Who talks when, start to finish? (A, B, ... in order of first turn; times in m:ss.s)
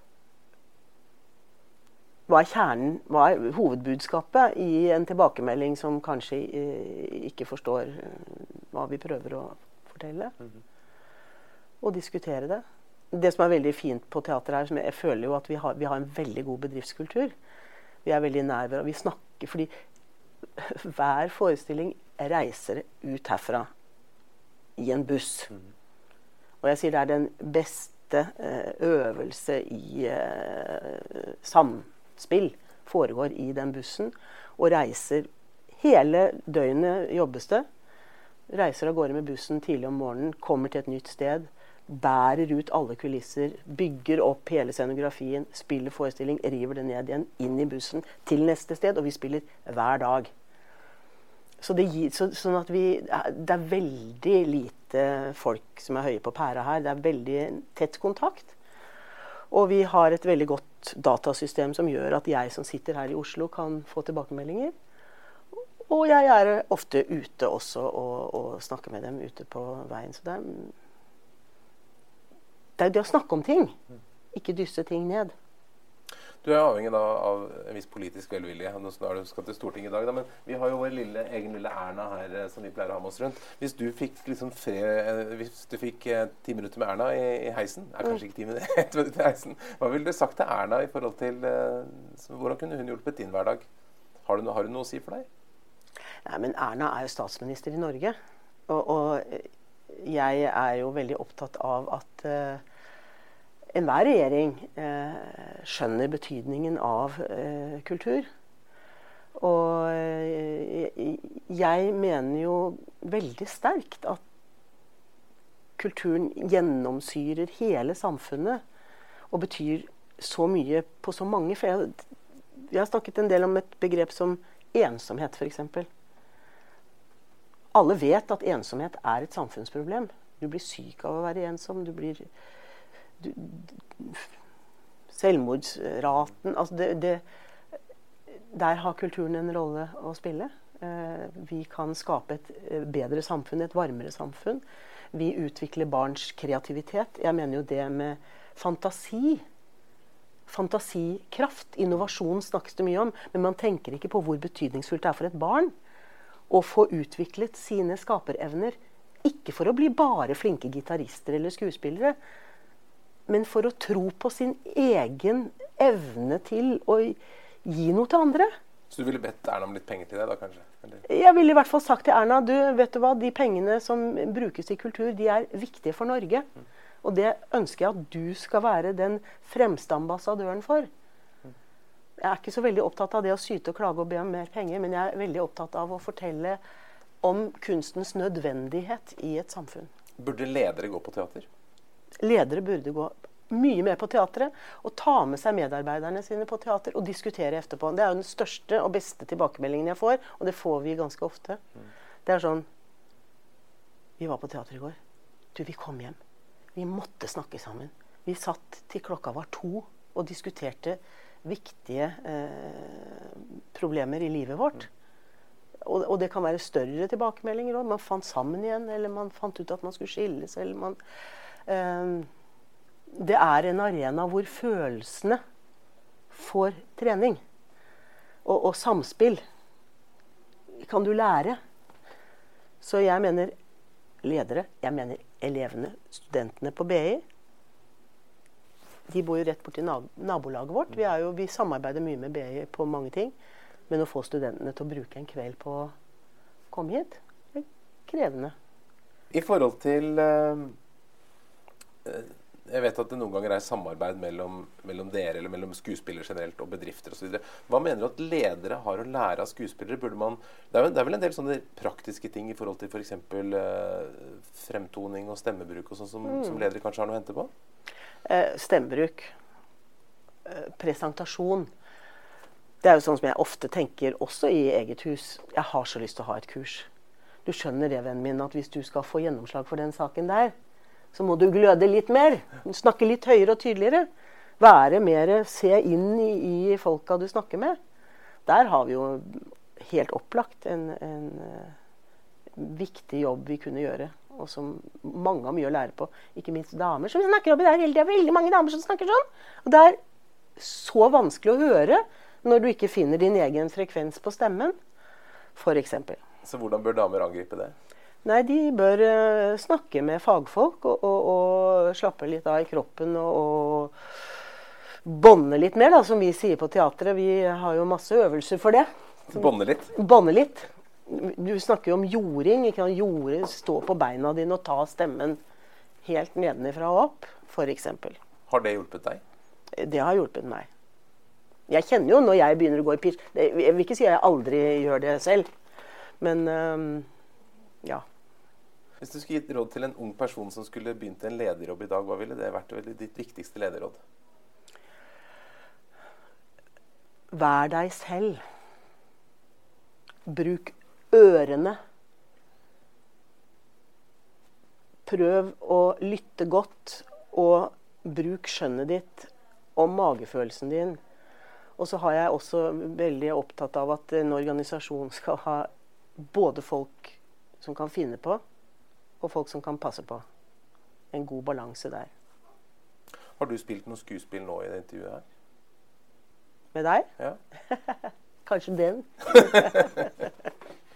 0:02.3-0:10.3 A
0:11.8-0:17.3 A
0:18.0-0:19.7 A
0:20.6-0:23.7 A
0:24.8-0:25.5 A
0:26.6-0:37.6 A
0:38.5-0:50.3 A
0:51.6-0:58.5 A
0:59.5-1:04.7 A
1:05.5-1:10.7 A
1:12.8-1:13.8 A
1:14.3-1:15.3 A
1:16.4-1:33.6 B
1:34.2-1:35.3 B
1:36.2-1:38.2 A
1:38.7-1:42.6 A
1:43.7-1:48.3 A
1:49.4-1:54.2 A
1:55.8-1:58.6 A
1:59.3-2:02.0 A
2:02.6-2:05.9 A
2:07.7-2:12.3 A
2:13.2-2:14.3 A
2:15.1-2:17.2 A
2:18.5-2:29.4 A
2:30.5-2:35.7 A
2:36.5-2:42.2 A
2:43.3-2:48.5 A
2:48.9-2:51.0 B
2:51.0-2:56.5 A
2:57.0-3:00.9 A
3:02.2-3:06.6 A
3:07.2-3:09.9 A
3:10.2-3:11.5 B
3:12.2-3:21.6 A
3:22.2-3:22.6 A
3:24.2-3:25.0 A
3:25.5-3:26.2 A
3:26.7-3:34.9 A
3:35.8-3:41.0 A
3:41.6-3:42.3 A
3:43.1-3:45.4 A
3:46.3-3:47.4 A
3:48.4-3:49.4 A
3:50.7-3:51.6 A
3:52.8-3:53.5 A
3:54.2-3:57.2 A
3:59.1-4:03.3 A
4:03.9-4:05.9 A
4:06.7-4:08.5 A
4:09.3-4:10.8 B
4:12.0-4:27.5 B
4:26.3-4:26.6 A
4:28.2-4:29.3 A
4:30.4-4:31.7 A
4:32.8-4:36.9 A
4:37.4-4:40.5 A
4:41.1-4:44.1 A
4:44.6-4:47.8 A
4:48.4-4:51.7 A
4:52.5-5:00.0 A
5:00.6-5:04.7 A
5:05.6-5:06.2 A
5:06.4-5:07.7 B
5:08.2-5:14.0 A
5:15.0-5:25.4 A
5:19.3-5:19.9 B
5:26.0-5:28.2 A
5:28.5-5:29.2 B
5:29.7-5:30.7 A
5:31.7-5:35.5 A
5:36.2-5:37.1 A
5:39.0-5:44.0 B
5:47.3-5:48.4 A
5:50.2-5:51.8 A
5:55.0-6:01.0 A
6:01.8-6:08.4 A
6:09.2-6:10.2 A
6:11.1-6:12.1 A
6:13.4-6:15.2 B
6:16.7-6:17.1 A
6:17.7-6:20.1 A